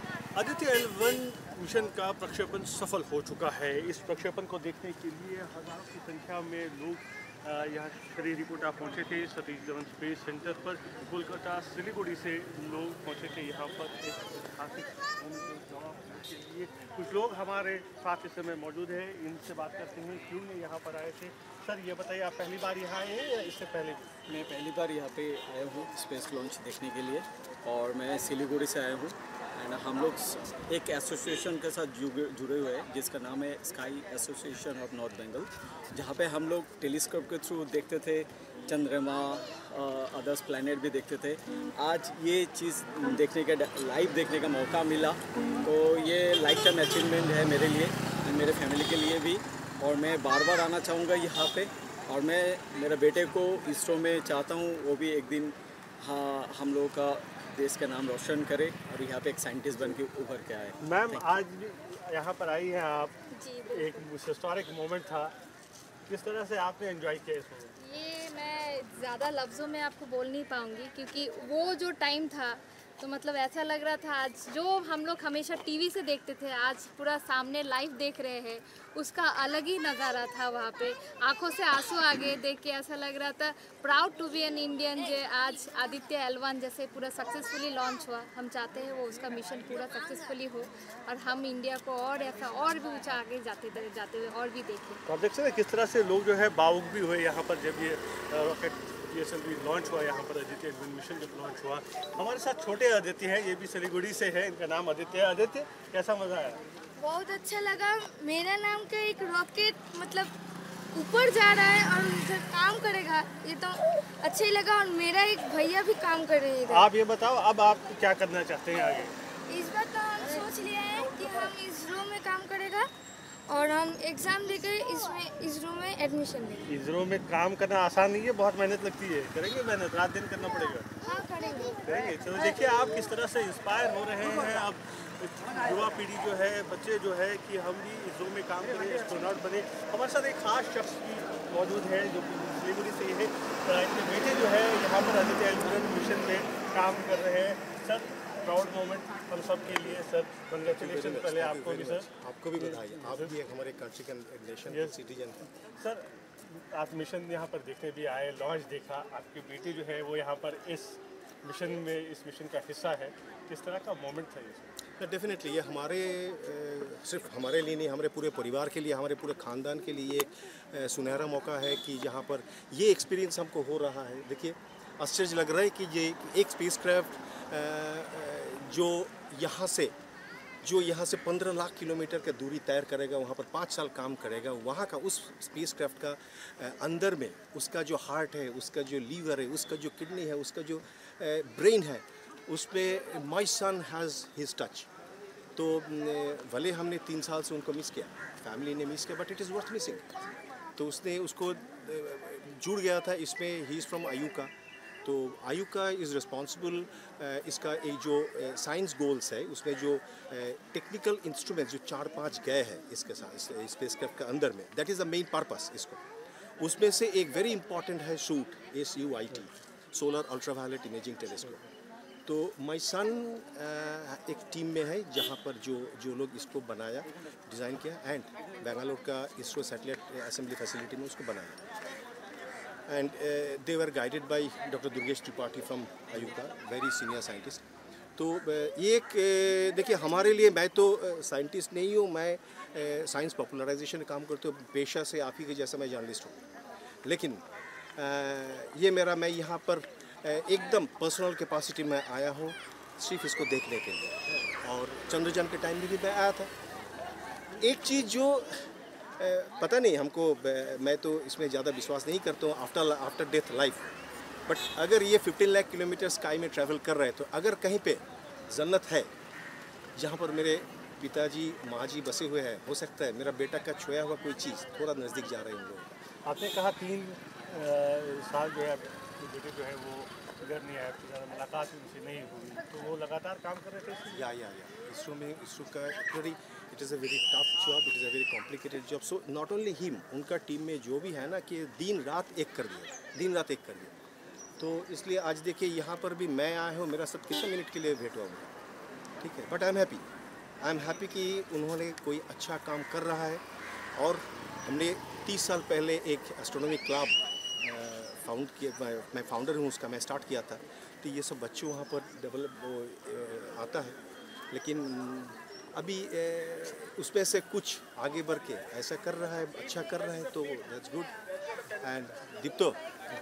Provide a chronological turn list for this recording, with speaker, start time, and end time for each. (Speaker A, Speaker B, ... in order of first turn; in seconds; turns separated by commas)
Speaker A: 0.3-24.1, Speaker B: 24.3-61.4, Speaker A: 60.8-63.1, Speaker C: 63.3-64.0, Speaker A: 63.7-65.3, Speaker A: 66.1-67.8, Speaker C: 67.8-95.0, Speaker A: 95.1-106.6, Speaker D: 107.0-110.3, Speaker D: 110.9-116.9, Speaker A: 116.7-119.1, Speaker D: 119.5-122.9, Speaker D: 123.5-126.6, Speaker A: 126.7-130.9, Speaker D: 131.0-131.8, Speaker A: 131.8-153.3, Speaker E: 150.7-155.5, Speaker A: 154.7-155.0, Speaker A: 155.7-164.7, Speaker E: 165.0-179.9, Speaker E: 180.6-194.9, Speaker E: 195.6-200.1, Speaker E: 200.8-204.5, Speaker E: 205.0-216.0, Speaker E: 216.6-221.6, Speaker E: 222.3-231.7, Speaker E: 232.9-237.6, Speaker E: 238.2-246.4, Speaker E: 247.1-247.4, Speaker E: 248.0-256.5, Speaker E: 257.6-263.9, Speaker E: 264.5-269.1, Speaker E: 270.0-276.0, Speaker A: 276.2-284.3, Speaker E: 284.1-293.9, Speaker E: 294.6-298.5, Speaker E: 299.2-300.1, Speaker E: 300.6-303.4, Speaker E: 303.9-314.0, Speaker E: 314.5-321.1, Speaker E: 321.8-322.8